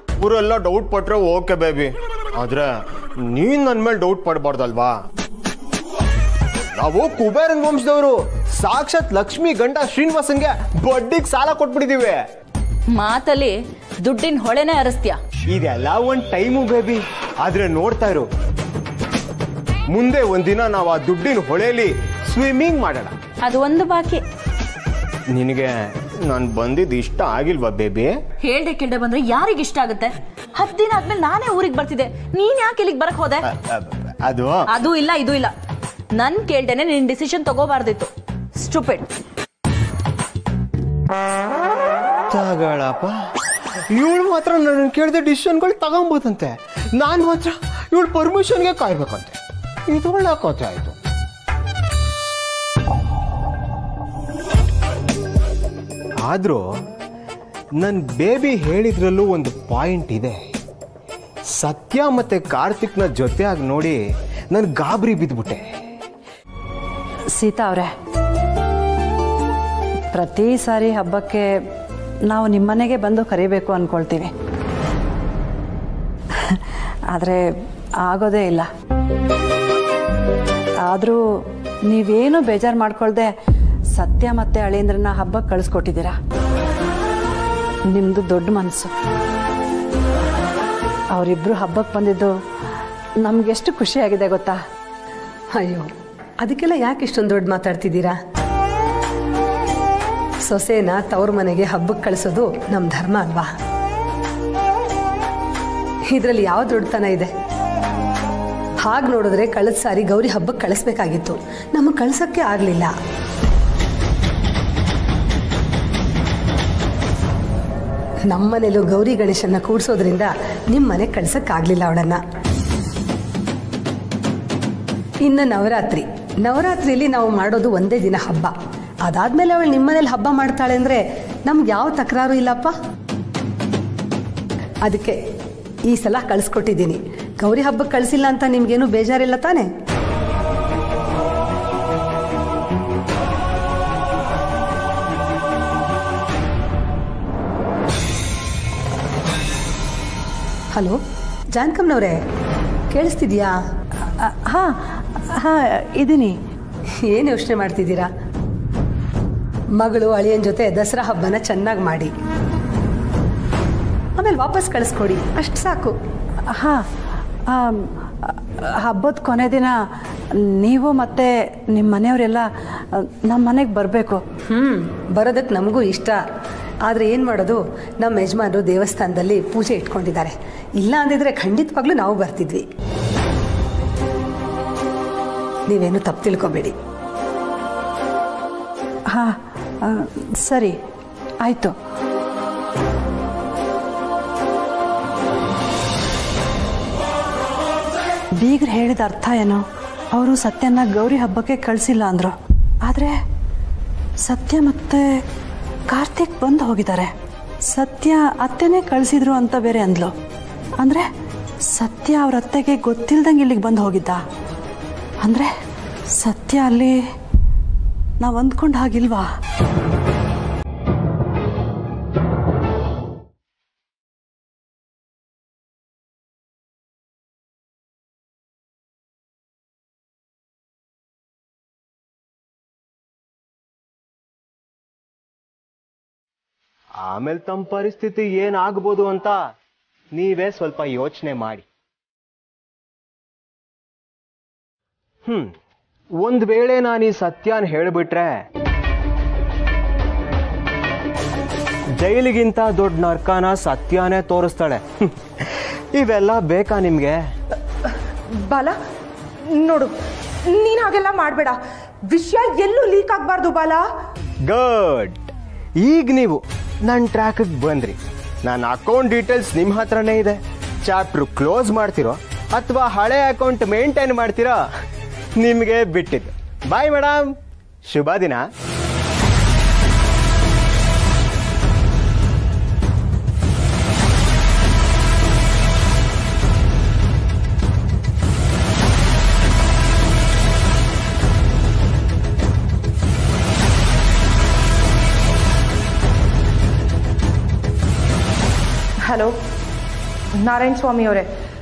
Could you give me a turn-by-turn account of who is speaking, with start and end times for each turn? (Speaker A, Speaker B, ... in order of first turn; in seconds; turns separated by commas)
Speaker A: 0.2-4.9, Speaker A: 6.7-12.2, Speaker B: 12.9-15.2, Speaker A: 15.5-18.3, Speaker A: 19.9-23.1, Speaker B: 23.4-24.2, Speaker A: 25.3-28.1, Speaker B: 28.4-33.5, Speaker A: 33.5-34.6, Speaker B: 34.7-35.5, Speaker B: 36.1-39.1, Speaker A: 42.3-43.1, Speaker A: 43.9-49.4, Speaker A: 49.9-51.0, Speaker A: 56.2-56.6, Speaker A: 57.8-60.4, Speaker A: 61.5-64.0, Speaker A: 64.5-65.7, Speaker C: 67.3-67.9, Speaker C: 70.1-71.6, Speaker C: 72.3-74.3, Speaker C: 77.1-77.4, Speaker C: 78.0-78.7, Speaker C: 80.8-83.3, Speaker C: 84.0-86.2, Speaker C: 87.9-88.9, Speaker C: 91.1-92.3, Speaker C: 93.2-94.6, Speaker D: 95.5-98.2, Speaker D: 100.5-103.5, Speaker D: 106.1-107.3, Speaker D: 108.8-112.9, Speaker D: 118.3-122.2, Speaker D: 125.2-128.5, Speaker D: 129.1-132.7, Speaker D: 134.8-135.2, Speaker D: 135.9-139.7, Speaker D: 150.7-151.0, Speaker D: 151.5-152.2, Speaker D: 152.9-153.6, Speaker C: 154.2-156.4, Speaker D: 157.0-158.1, Speaker D: 159.8-162.1, Speaker D: 164.2-165.9, Speaker C: 166.5-166.9, Speaker C: 167.5-169.7, Speaker C: 170.5-174.2, Speaker D: 174.5-176.2, Speaker D: 176.8-182.7, Speaker D: 185.7-186.8, Speaker C: 189.1-190.8, Speaker C: 191.4-191.7, Speaker C: 198.4-202.3, Speaker C: 202.9-203.2, Speaker C: 204.2-205.2, Speaker C: 205.9-207.1, Speaker C: 207.7-210.1, Speaker C: 210.8-211.1, Speaker C: 211.7-214.2, Speaker C: 215.2-215.5, Speaker C: 216.1-217.0, Speaker C: 218.2-219.3, Speaker A: 237.0-239.4, Speaker A: 240.1-241.6, Speaker A: 245.2-245.6, Speaker A: 246.2-248.4, Speaker A: 252.0-257.2, Speaker E: 258.3-258.8, Speaker E: 259.4-259.9, Speaker E: 260.4-263.8, Speaker A: 264.5-265.2, Speaker A: 265.8-274.6, Speaker A: 275.4-277.3, Speaker A: 277.9-278.4, Speaker E: 299.1-299.3, Speaker E: 300.4-301.3